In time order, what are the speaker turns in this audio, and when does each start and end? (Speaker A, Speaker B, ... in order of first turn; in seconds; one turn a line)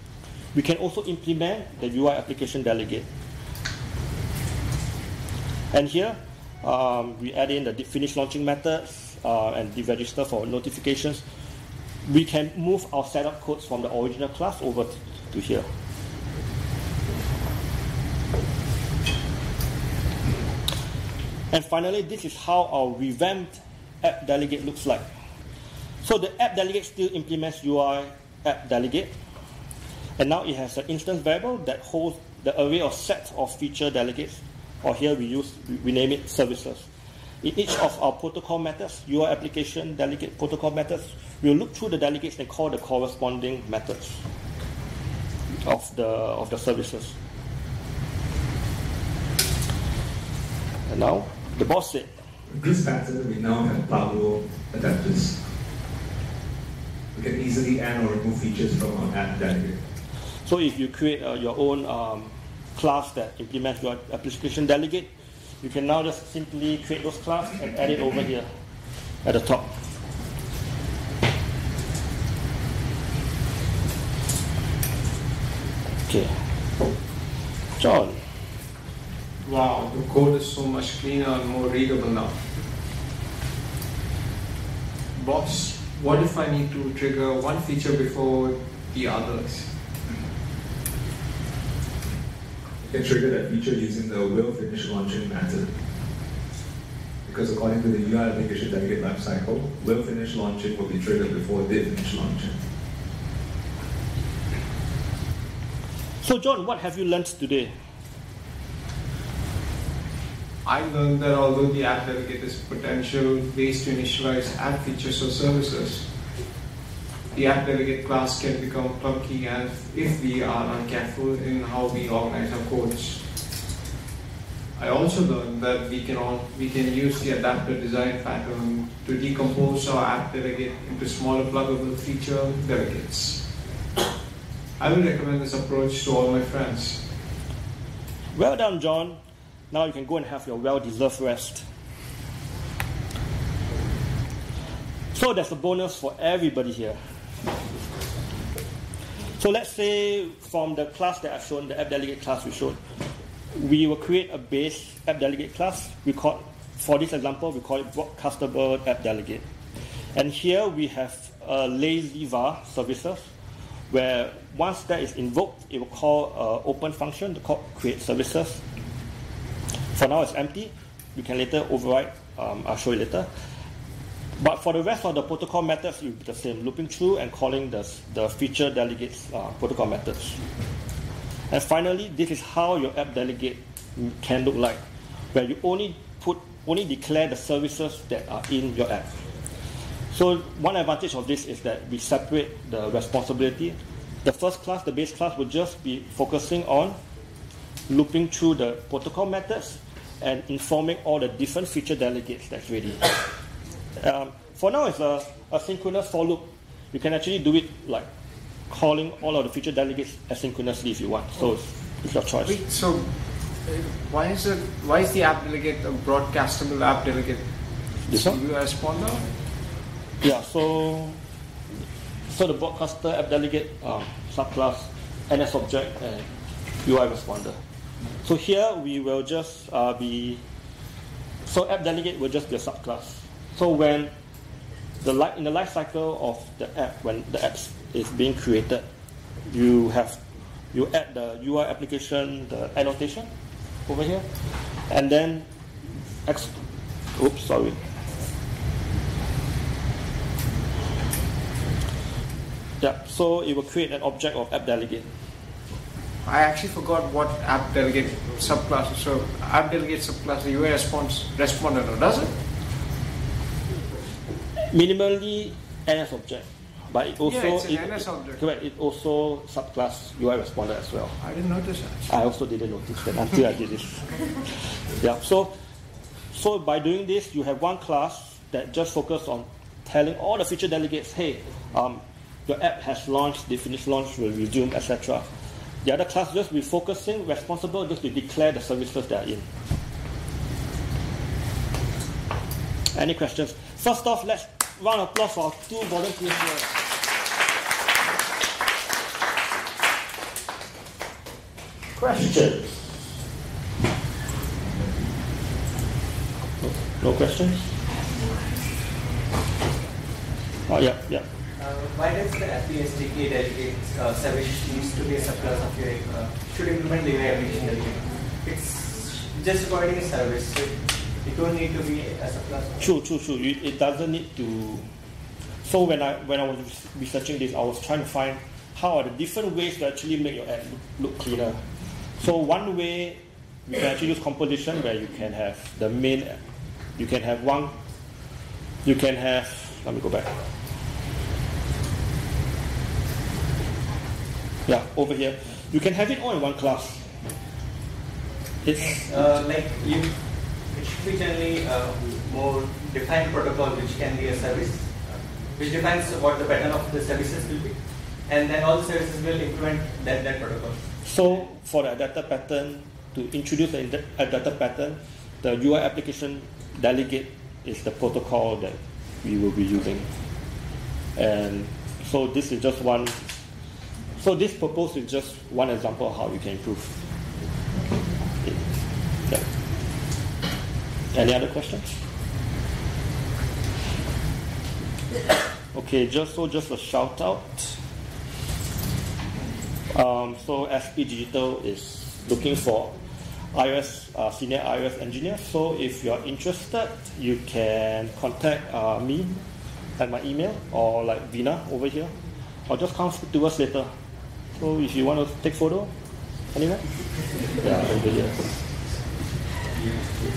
Speaker A: 0.5-3.1
Speaker A: 5.7-11.2
Speaker A: 12.0-15.7
Speaker A: 21.5-25.0
Speaker A: 26.0-29.1
Speaker A: 30.2-36.9
Speaker A: 37.4-44.2
Speaker A: 45.6-47.1
Speaker A: 50.9-52.1
Speaker B: 52.5-55.4
Speaker B: 57.1-59.8
Speaker A: 60.4-65.1
Speaker A: 65.6-68.5
Speaker A: 69.2-69.7
Speaker A: 76.1-76.3
Speaker A: 77.7-78.2
Speaker C: 79.4-82.4
Speaker C: 85.1-89.7
Speaker B: 92.8-95.7
Speaker B: 97.2-102.6
Speaker A: 106.2-107.7
Speaker C: 110.6-116.0
Speaker C: 117.3-123.2
Speaker C: 124.8-133.4
Speaker C: 134.8-137.0
Speaker A: 138.3-139.2
Speaker A: 139.7-141.6
Speaker A: 145.1-147.0
Speaker A: 149.3-152.8
Speaker A: 153.5-159.4
Speaker A: 160.1-163.3
Speaker A: 163.9-168.6
Speaker A: 169.9-173.3
Speaker A: 174.4-180.4
Speaker A: 181.5-184.8
Speaker A: 185.3-189.2
Speaker A: 190.1-197.0
Speaker A: 197.9-203.2
Speaker A: 204.0-208.1
Speaker A: 208.7-212.6
Speaker C: 212.4-213.1
Speaker C: 213.6-217.4
Speaker A: 218.1-218.4
Speaker C: 218.1-219.2
Speaker A: 220.2-221.2
Speaker A: 222.3-226.2
Speaker A: 226.8-227.6
Speaker A: 228.2-230.4
Speaker A: 231.4-234.1
Speaker A: 235.0-238.8
Speaker A: 239.5-240.2
Speaker A: 240.7-243.3
Speaker A: 243.9-244.3
Speaker A: 244.9-245.4
Speaker A: 246.2-246.6
Speaker A: 247.2-247.8
Speaker A: 252.8-255.1
Speaker C: 256.2-262.3
Speaker A: 264.6-271.2
Speaker C: 267.2-268.4
Speaker C: 271.2-272.0
Speaker A: 272.1-275.5
Speaker A: 276.3-285.3
Speaker A: 285.8-289.4
Speaker A: 292.9-296.8
Speaker A: 301.9-303.0
Speaker A: 306.6-307.6
Speaker A: 310.7-311.2
Speaker D: 311.6-322.8
Speaker A: 322.8-324.9
Speaker A: 325.6-331.6
Speaker A: 332.1-336.4
Speaker A: 337.0-337.7
Speaker A: 338.8-340.4
Speaker A: 344.7-347.1
Speaker A: 348.6-349.1
Speaker D: 348.9-350.1
Speaker D: 350.7-354.9
Speaker D: 355.6-357.8
Speaker D: 358.3-360.8
Speaker A: 361.0-370.1
Speaker A: 371.1-373.2
Speaker A: 374.2-377.0
Speaker A: 381.1-382.0
Speaker A: 385.7-387.8
Speaker A: 389.9-392.9
Speaker A: 393.5-399.4
Speaker A: 400.0-402.1
Speaker A: 402.7-403.9
Speaker A: 404.5-405.9
Speaker A: 406.5-406.8
Speaker A: 407.4-408.5